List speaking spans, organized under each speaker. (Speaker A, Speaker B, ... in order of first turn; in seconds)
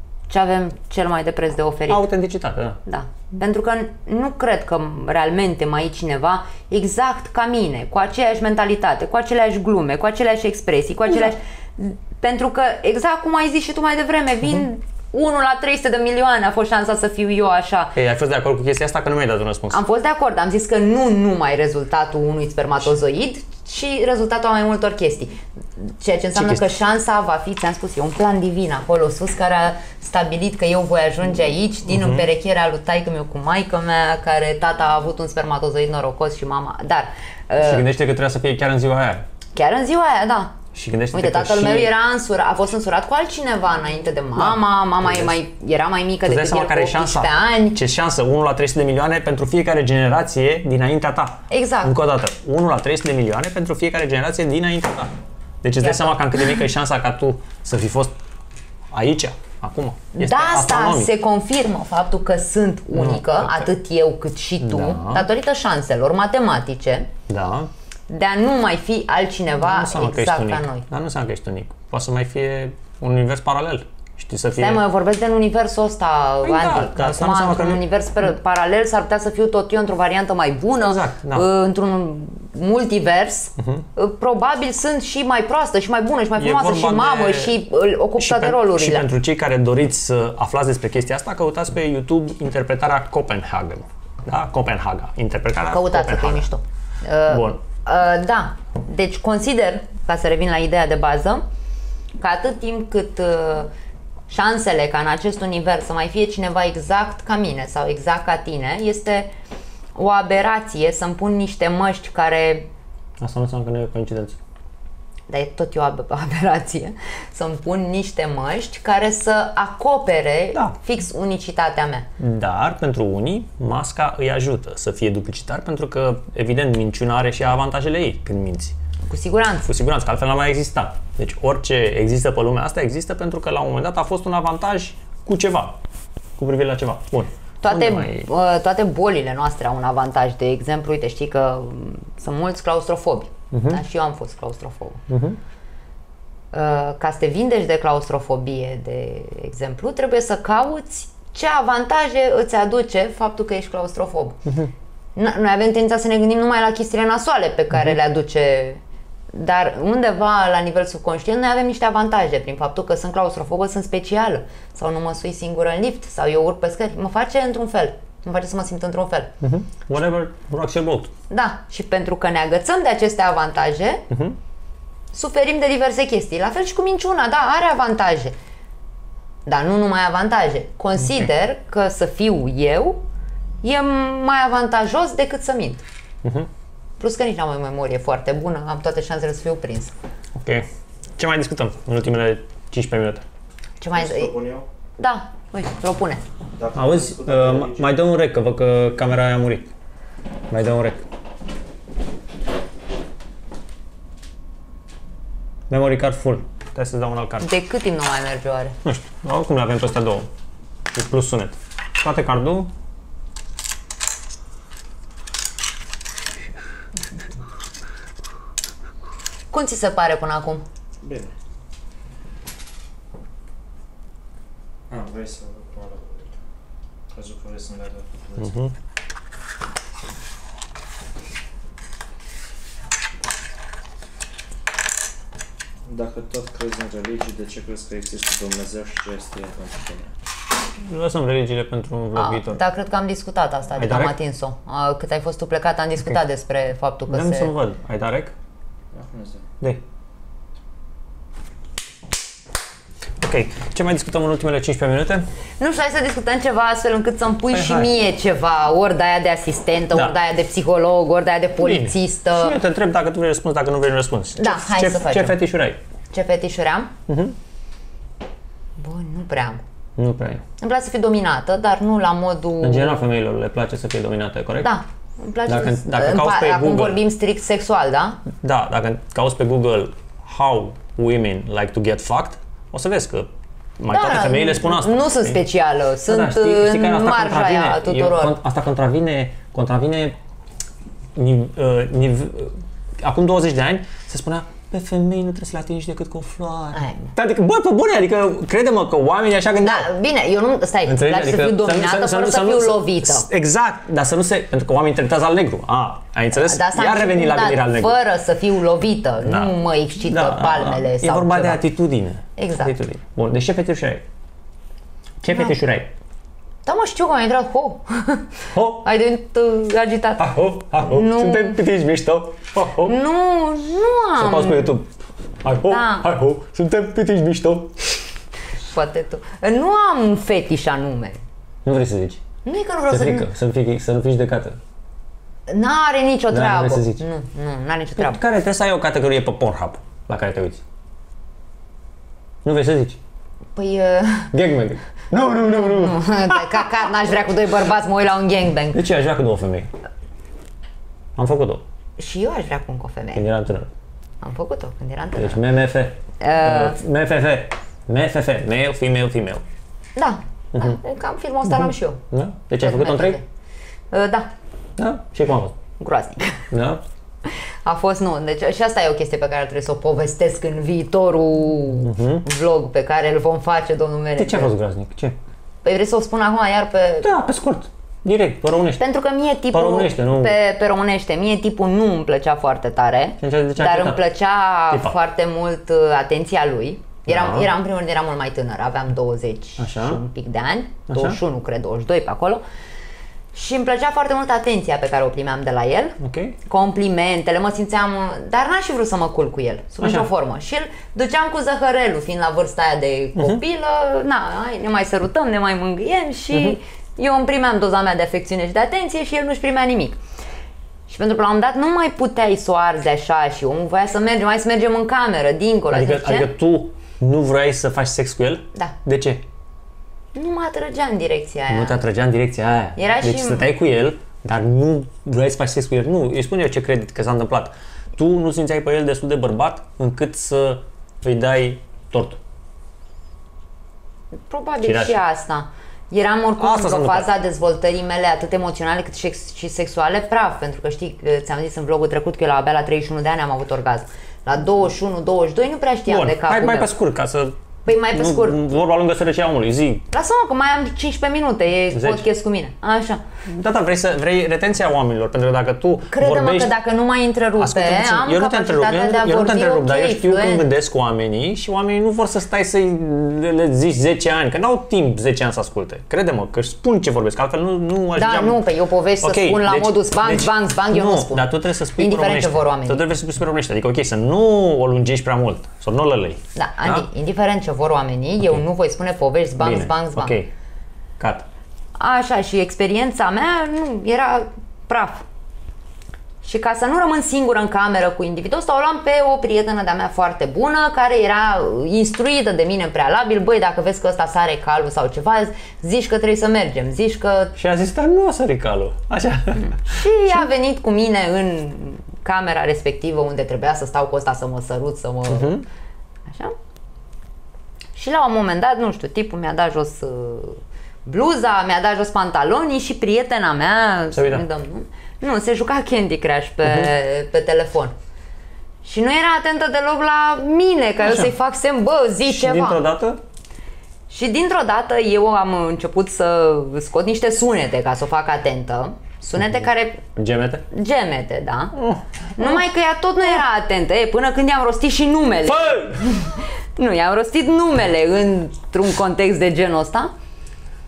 Speaker A: 0.3-2.0, 2.9-17.9, 19.7-37.9, 39.5-40.6, 41.1-47.8, 51.5-52.0, 55.8-56.3, 60.1-67.1, 68.1-70.9, 74.6-89.1, 95.7-101.4, 102.2-103.7, 104.3-109.3, 110.0-112.7, 115.3-122.1, 129.1-129.7, 137.6-145.0, 146.5-154.4, 155.2-158.8, 159.3-169.3, 171.3-174.0, 175.1-178.3, 179.5-183.0, 183.6-185.8, 187.0-189.9, 193.8-194.3, 195.0-196.2, 207.4-208.8, 219.5-220.7, 242.2-247.5, 255.6-262.6, 264.4-265.4, 266.1-266.9, 268.8-269.6, 270.6-273.0, 274.6-278.2, 283.9-288.4, 296.7-297.1, 299.6-303.3, 306.4-311.6, 312.4-312.7, 316.6-321.6, 322.9-324.7, 325.6-326.1, 328.7-331.2, 332.4-333.3, 335.5-338.2, 343.6-344.3, 345.4-348.8, 352.0-353.2, 354.2-355.4, 356.2-356.8, 359.9-362.0, 362.6-363.2, 363.9-364.3, 365.8-366.4, 367.3-374.5, 375.6-377.1, 378.8-392.4, 393.3-410.0, 410.9-416.3, 420.1-421.8, 422.8-423.5, 434.2-446.7, 447.6-448.4, 449.9-453.0, 455.9-460.5, 468.0-472.9, 476.4-480.2, 481.8-485.0, 486.2-497.4, 499.5-505.4, 506.1-506.4, 507.8-517.7, 518.6-522.6, 523.9-529.9, 530.5-531.5, 532.2-539.9
Speaker B: 1.9-2.8, 17.9-19.8, 26.4-26.7, 31.9-32.3, 37.6-39.2, 40.7-41.9, 44.4-45.4, 46.2-58.1, 58.9-61.1, 62.9-63.7, 64.6-65.3, 67.3-67.7, 69.6-74.8, 76.4-77.8, 80.8-81.5, 83.6-83.8, 86.4-87.6, 88.2-96.5, 97.3-97.6, 113.2-114.4, 122.2-128.8, 129.7-135.8, 136.4-138.3, 143.5-143.8, 145.1-145.4, 154.4-154.7, 169.4-171.1, 174.1-174.4, 186.2-186.5, 190.4-190.7, 191.2-193.2, 196.7-199.7, 200.5-201.0, 205.7-207.5, 208.8-210.3, 210.9-212.7, 228.4-228.7, 240.8-242.6, 243.8-244.2, 247.1-248.3, 253.2-255.3, 257.5-257.9, 261.6-265.8, 267.1-267.4, 270.0-270.4, 272.6-274.7, 275.5-277.0, 278.4-285.4, 286.1-290.1, 291.1-299.9, 300.9-307.9, 309.2-314.0, 315.2-315.9, 318.5-318.9, 320.2-322.9, 324.2-324.9, 325.4-328.0, 331.6-332.2, 332.9-334.6, 336.3-337.0, 338.0-340.6, 342.4-343.0, 344.3-346.7, 348.7-349.7, 351.2-351.6, 353.1-353.7, 355.2-359.4, 361.5-363.2, 364.8-365.6, 366.5-366.8, 371.8-372.2, 374.2-375.2, 377.0-378.8, 379.5-380.4, 383.2-384.0, 384.7-385.0, 387.1-387.5, 389.6-390.0, 390.9-391.2, 396.0-396.4, 399.8-400.1, 406.3-406.6, 415.7-419.2, 421.5-432.2, 434.6-435.0, 436.4-437.1, 445.9-449.9, 451.7-452.1, 453.3-456.5, 457.4-468.4, 469.0-476.9, 479.4-480.3, 481.0-481.2, 497.4-499.8, 505.1-505.5, 513.9-514.2, 516.5-516.7, 520.8-521.1, 522.1-523.0, 530.0-530.5, 531.5-532.4, 535.3-535.9
Speaker C: 193.9-194.7, 196.6-197.9, 221.0-221.3, 224.9-226.2, 227.1-228.5, 235.9-240.1, 248.9-249.4